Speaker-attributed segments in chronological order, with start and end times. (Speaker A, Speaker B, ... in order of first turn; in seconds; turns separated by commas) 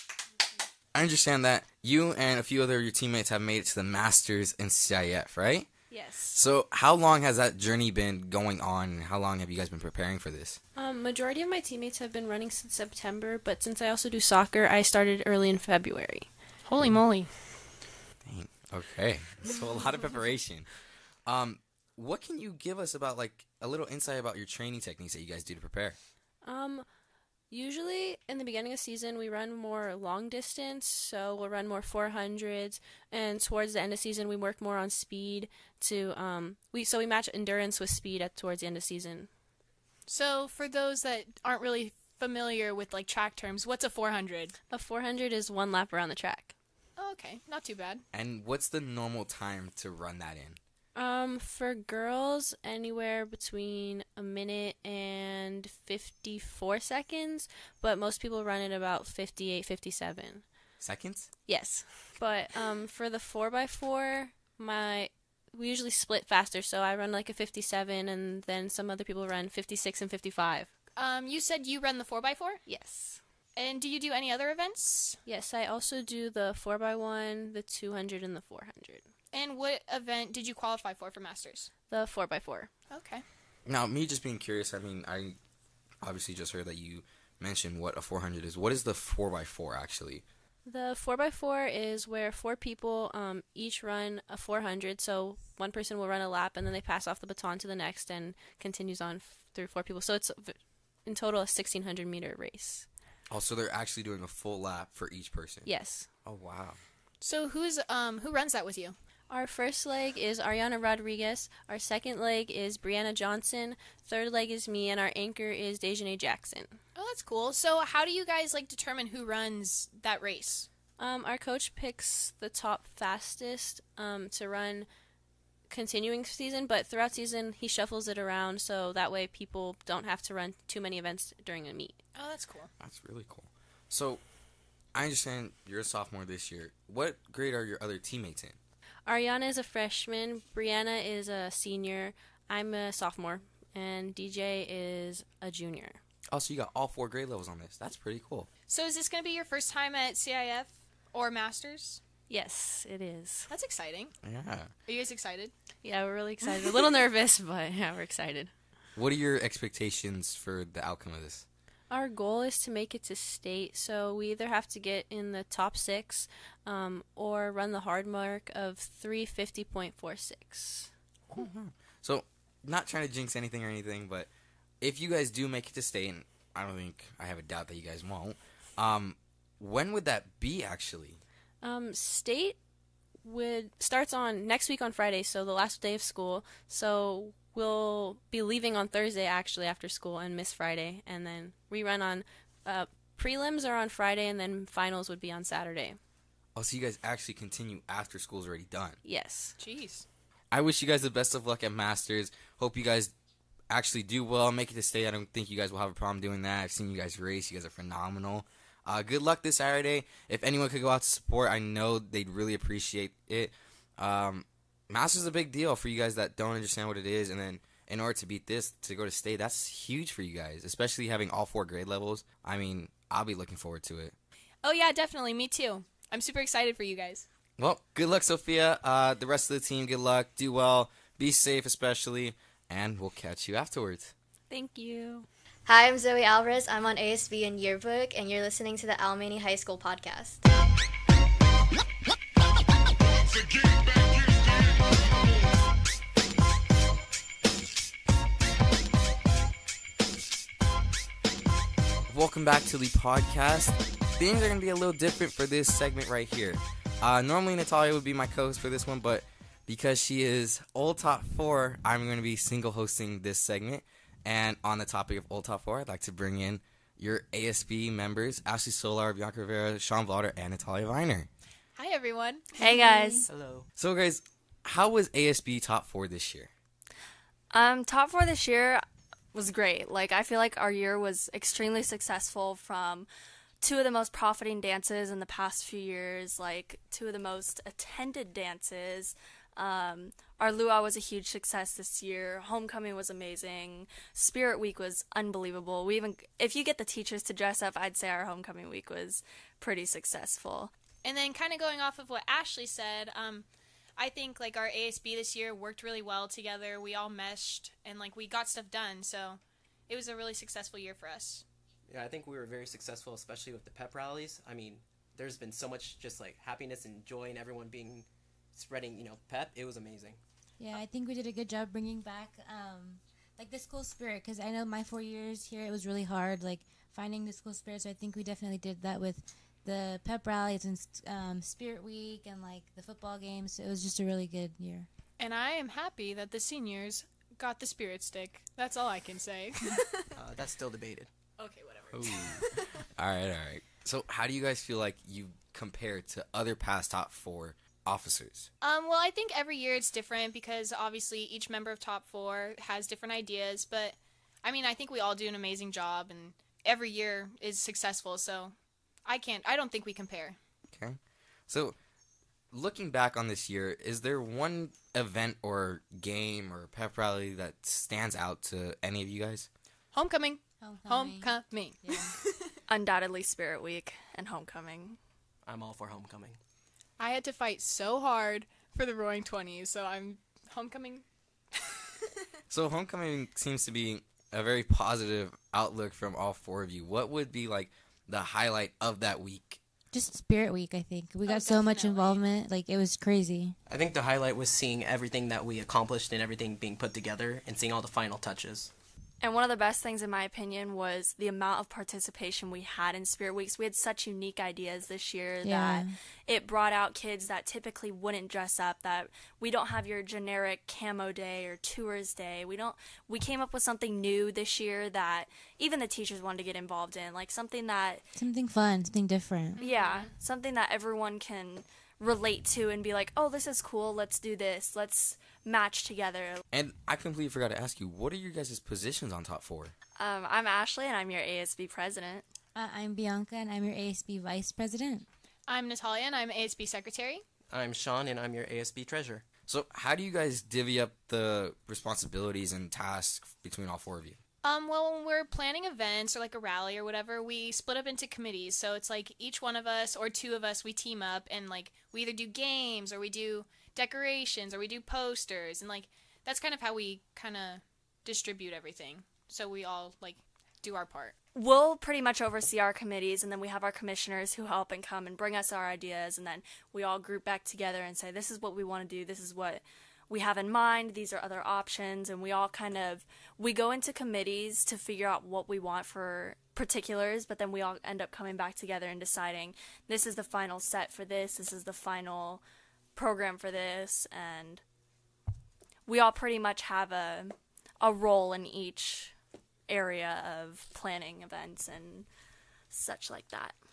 Speaker A: 0.9-5.7, Speaker B: 5.9-6.4, Speaker A: 6.3-10.6, Speaker B: 10.8-16.3, Speaker C: 16.7-17.4, Speaker A: 18.2-20.7, Speaker A: 21.3-26.0, Speaker B: 26.4-26.9, Speaker B: 27.5-39.3, Speaker C: 40.1-44.5, Speaker B: 44.7-46.5, Speaker C: 47.0-48.0, Speaker A: 48.1-50.6, Speaker B: 51.0-60.5, Speaker A: 60.8-61.3, Speaker B: 61.5-70.7, Speaker C: 71.0-72.6, Speaker B: 72.7-73.2, Speaker C: 73.6-75.2, Speaker B: 75.2-79.1, Speaker C: 79.3-81.7, Speaker B: 81.9-82.7, Speaker C: 82.9-83.2, Speaker A: 83.7-85.4, Speaker A: 86.0-90.2, Speaker B: 90.7-102.9, Speaker A: 103.3-105.7, Speaker B: 105.7-106.1, Speaker A: 106.2-106.8, Speaker C: 107.2-109.0, Speaker B: 109.3-116.8, Speaker C: 117.0-120.7, Speaker B: 121.0-124.9, Speaker B: 125.7-132.0, Speaker C: 132.2-132.7, Speaker A: 132.8-134.2, Speaker A: 134.9-138.6, Speaker B: 139.1-146.0, Speaker A: 146.3-148.5, Speaker C: 148.7-152.0, Speaker B: 152.3-153.5, Speaker C: 153.5-154.1, Speaker A: 154.2-154.7, Speaker C: 154.9-155.5, Speaker B: 155.8-158.5, Speaker A: 158.9-161.4, Speaker B: 161.9-170.9, Speaker A: 171.3-174.3, Speaker A: 174.8-181.2, Speaker B: 181.6-182.6, Speaker B: 183.2-196.0, Speaker A: 196.6-199.0, Speaker B: 199.0-199.6, Speaker C: 199.6-200.1, Speaker A: 200.5-203.1, Speaker A: 203.7-224.2, Speaker C: 224.6-227.2, Speaker A: 227.6-234.1, Speaker B: 234.5-235.3, Speaker D: 235.7-240.4, Speaker A: 252.1-271.3, Speaker C: 271.8-272.5, Speaker E: 272.6-273.3, Speaker F: 273.2-273.7, Speaker A: 273.8-276.5, Speaker E: 277.5-278.8, Speaker E: 279.3-283.1, Speaker E: 283.6-300.7, Speaker C: 301.0-311.4, Speaker F: 311.9-320.2, Speaker G: 320.6-334.9, Speaker C: 335.2-340.0, Speaker F: 340.2-341.1, Speaker C: 341.4-342.8, Speaker A: 341.9-342.4, Speaker A: 343.0-348.5, Speaker C: 348.6-358.5, Speaker C: 359.1-360.4, Speaker A: 360.7-361.8, Speaker A: 362.5-369.5, Speaker C: 369.9-372.4, Speaker G: 370.6-372.2, Speaker E: 372.7-375.0, Speaker F: 375.4-376.4, Speaker C: 377.0-381.1, Speaker A: 382.5-389.6, Speaker G: 389.9-393.6, Speaker C: 391.2-392.3, Speaker F: 393.7-398.7, Speaker E: 399.2-418.1, Speaker G: 405.4-405.9, Speaker G: 418.2-419.6, Speaker C: 419.6-420.1, Speaker E: 419.6-426.4, Speaker A: 426.5-429.7, Speaker E: 430.0-432.3, Speaker G: 432.6-435.1, Speaker C: 435.5-437.2, Speaker F: 437.5-439.2, Speaker A: 439.5-444.2, Speaker C: 444.4-461.1, Speaker E: 461.4-482.4, Speaker E: 483.0-484.6, Speaker E: 485.9-489.1, Speaker E: 489.7-492.1, Speaker E: 492.7-493.6